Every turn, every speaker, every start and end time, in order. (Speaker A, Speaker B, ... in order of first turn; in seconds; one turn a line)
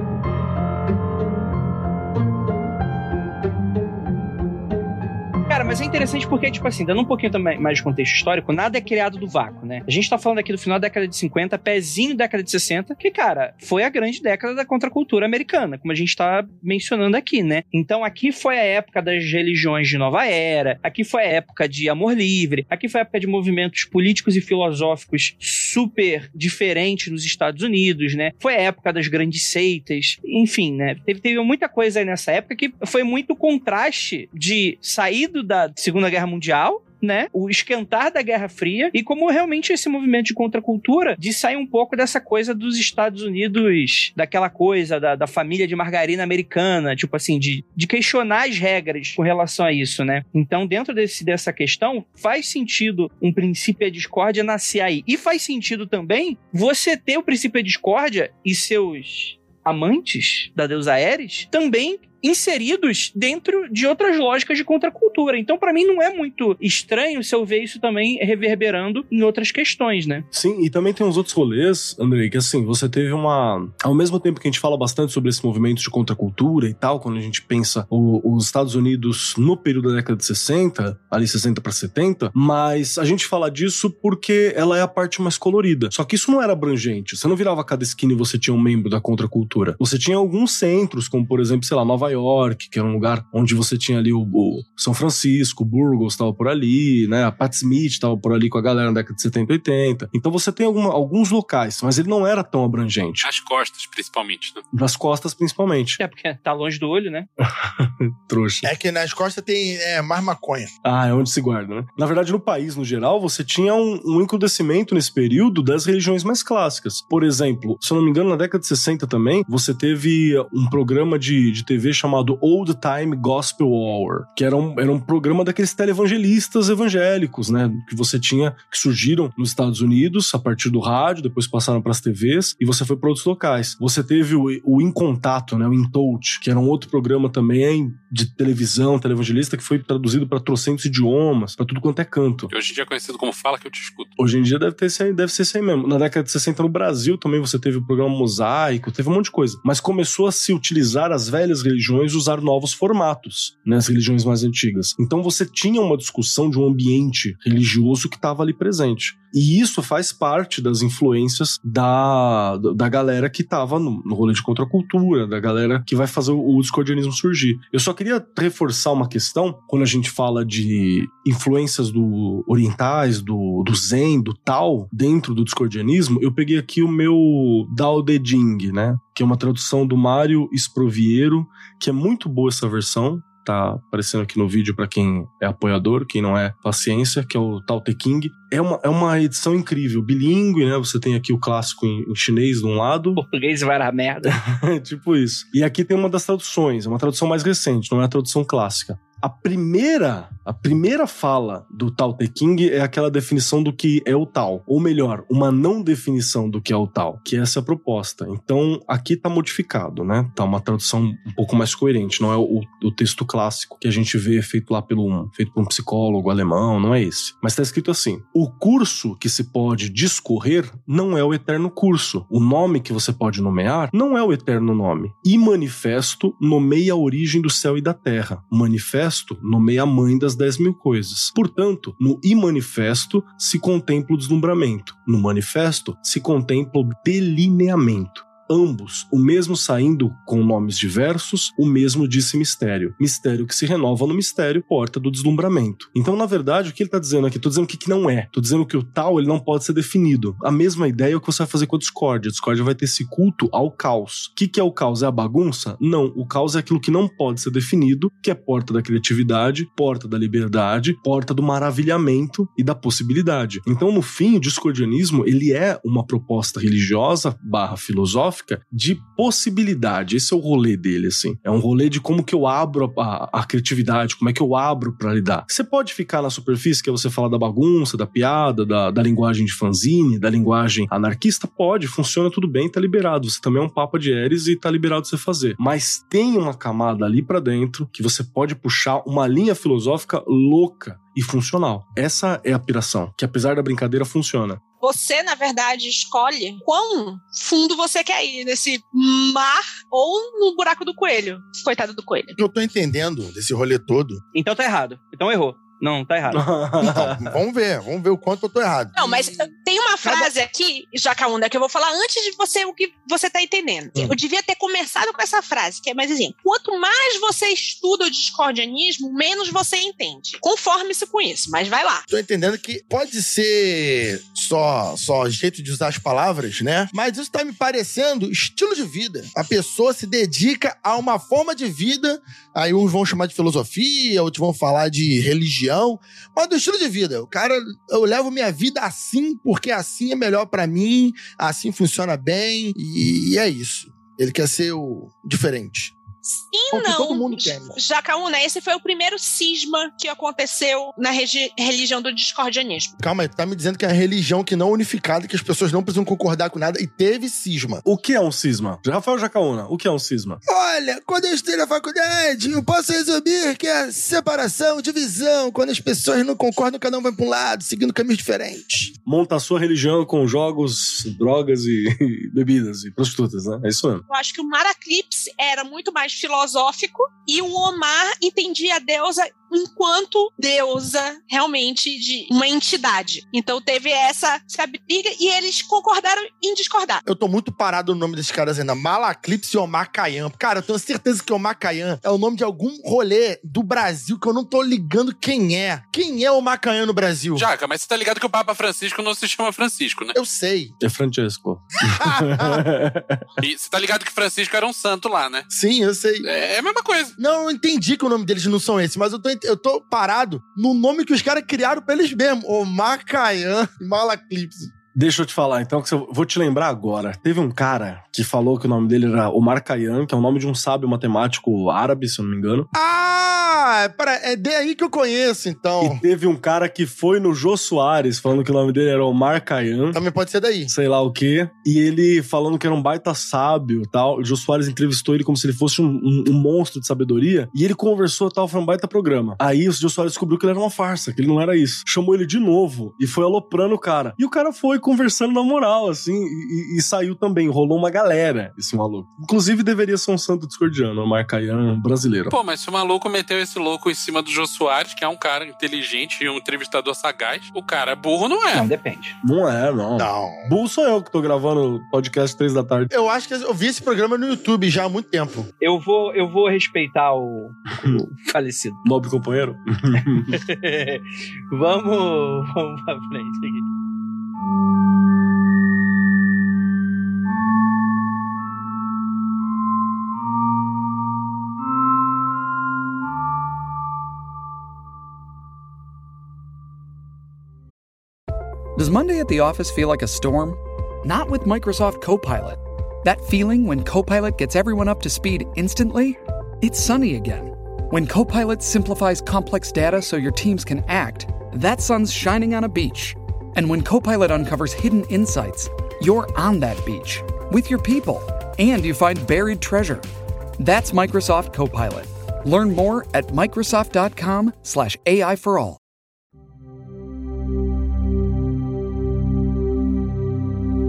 Speaker A: 5.5-70.3
Speaker B: 70.3-103.2
Speaker C: 103.2-104.6
Speaker B: 104.7-106.0
Speaker A: 106.0-107.3
Speaker B: 107.4-108.7
Speaker D: 108.6-110.7
Speaker B: 110.8-142.5
Speaker C: 142.5-144.1
Speaker B: 144.2-193.2
Speaker A: 193.2-194.4
Speaker B: 194.2-294.6
Speaker E: 294.8-302.4
Speaker D: 302.4-304.2
Speaker A: 304.3-306.4
Speaker B: 306.3-307.4
Speaker D: 306.8-309.3
Speaker E: 309.0-322.1
Speaker A: 310.0-310.3
Speaker D: 322.1-346.0
Speaker E: 346.2-353.0
Speaker D: 346.7-347.8
Speaker D: 353.0-357.8
Speaker B: 357.9-360.4
Speaker D: 360.5-368.9
Speaker B: 369.1-374.1
Speaker E: 374.1-387.1
Speaker D: 387.1-397.4
Speaker C: 397.4-400.2
Speaker D: 400.1-400.8
Speaker B: 400.8-403.3
Speaker D: 401.9-402.7
Speaker C: 403.4-405.5
Speaker D: 405.5-406.2
Speaker C: 406.2-407.1
Speaker D: 407.2-414.7
Speaker B: 414.9-422.7
Speaker D: 422.7-426.0
Speaker B: 425.8-430.0
Speaker D: 429.9-430.7
Speaker B: 430.7-452.4
Speaker C: 452.3-458.7
Speaker A: 458.5-459.2
Speaker B: 459.2-462.9
Speaker D: 460.0-460.5
Speaker D: 462.9-465.5
Speaker A: 465.6-468.8
Speaker B: 467.8-468.0
Speaker B: 468.8-470.4
Speaker A: 470.3-473.6
Speaker F: 488.8-510.1
Speaker F: 510.6-515.8